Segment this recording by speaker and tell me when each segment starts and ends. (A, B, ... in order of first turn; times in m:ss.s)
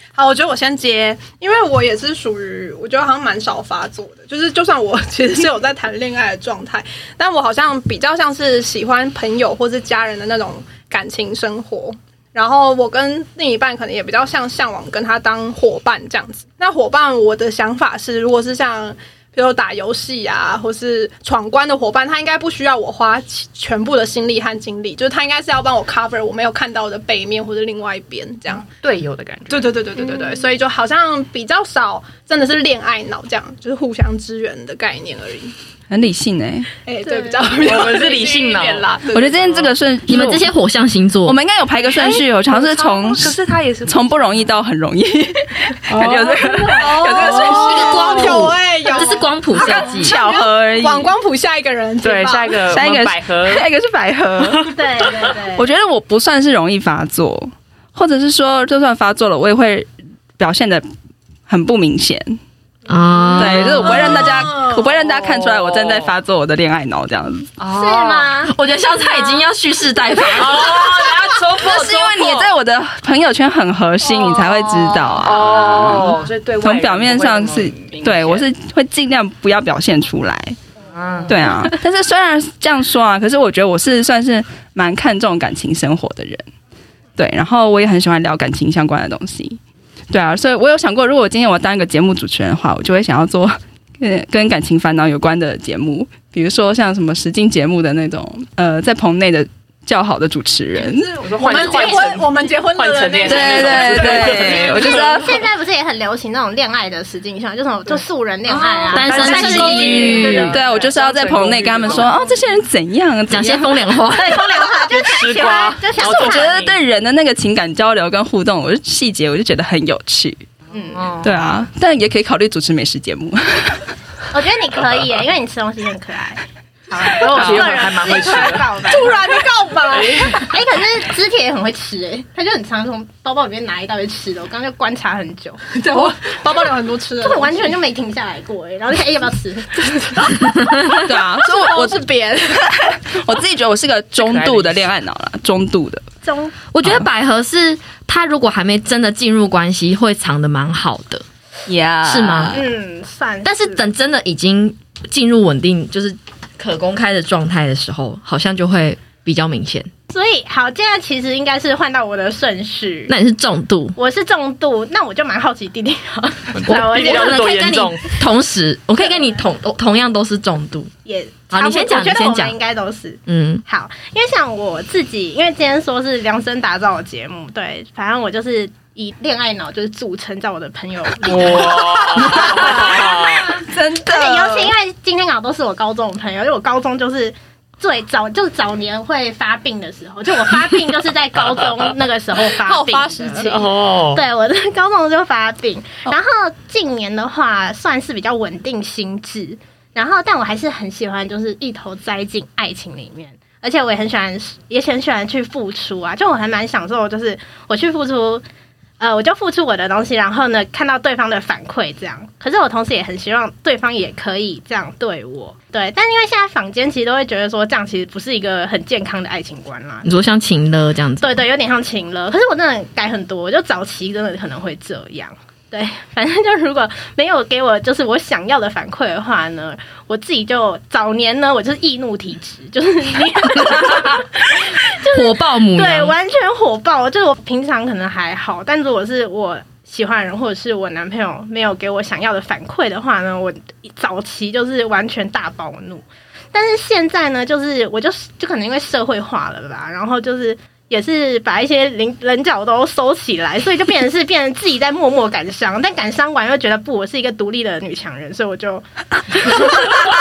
0:00.2-0:28.7 A
0:28.8-0:29.7 B
0:29.5-0:35.5 A
0:30.0-0:30.4 C
0:35.9-0:36.7 D
0:36.8-0:39.7 A
0:37.1-0:37.4 C
0:37.6-0:38.9 B
0:39.1-0:40.5 D
0:40.1-0:41.4 E
0:41.2-0:43.4 D
0:42.0-0:44.5 B
0:43.9-0:48.5 D
0:45.9-0:46.6 B
0:46.5-0:52.6 A
0:47.2-0:47.6 B
0:47.5-0:50.2 E
0:49.5-0:51.1 D
0:52.0-0:53.6 B
0:52.7-1:00.9 D
0:54.7-0:55.7 C
1:01.5-1:02.4 D
1:02.9-1:04.2 E
1:03.4-1:07.5 D
1:03.4-1:04.2 B
1:03.8-1:05.0 A
1:05.0-1:06.1 B
1:07.6-1:08.3 B
1:07.7-1:09.3 C
1:08.4-1:10.9 E
1:10.3-1:12.5 B
1:11.5-1:20.6 D
1:14.6-1:18.4 B
1:20.9-1:21.6 B
1:21.3-1:26.4 D
1:27.2-1:29.6 D
1:30.1-1:41.1 D
1:40.8-1:44.9 A
1:41.2-1:45.3 B
1:41.4-1:42.0 C
1:43.2-1:45.4 D
1:44.5-1:50.5 C
1:48.7-1:49.0 A
1:48.9-1:50.6 E
1:48.9-1:52.3 B
1:49.2-1:53.8 D
1:49.8-1:50.2 A
1:53.3-1:54.5 E
1:54.1-1:56.6 C
1:54.8-1:56.8 B
1:56.0-2:00.4 D
2:00.7-2:01.2 C
2:00.9-2:01.4 B
2:01.2-2:03.9 D
2:04.3-2:09.2 C
2:07.1-2:08.7 B
2:07.4-2:10.5 A
2:09.9-2:10.4 B
2:10.3-2:16.0 C
2:15.7-2:17.8 A
2:17.2-2:20.2 C
2:20.2-2:22.8 A
2:20.4-2:21.0 E
2:20.9-2:22.0 D
2:22.5-2:26.0 D
2:24.2-2:24.9 B
2:26.2-2:26.5 C
2:26.7-2:31.2 E
2:31.7-2:32.6 D
2:32.0-2:32.6 E
2:32.5-2:33.8 C
2:33.4-2:39.9 E
2:40.1-2:43.1 C
2:43.1-2:44.0 E
2:44.0-2:47.7 C
2:46.5-2:48.1 B
2:46.7-2:50.9 E
2:51.0-3:03.3 C
2:51.5-2:52.6 E
2:53.3-2:53.6 E
3:01.3-3:03.5 B
3:02.2-3:04.7 D
3:04.0-3:28.4 C
3:12.5-3:13.6 A
3:13.4-3:14.2 B
3:29.0-3:40.1 C
3:40.0-3:41.4 E
3:41.2-4:20.0 C
3:53.6-3:54.2 E
3:54.9-3:56.2 E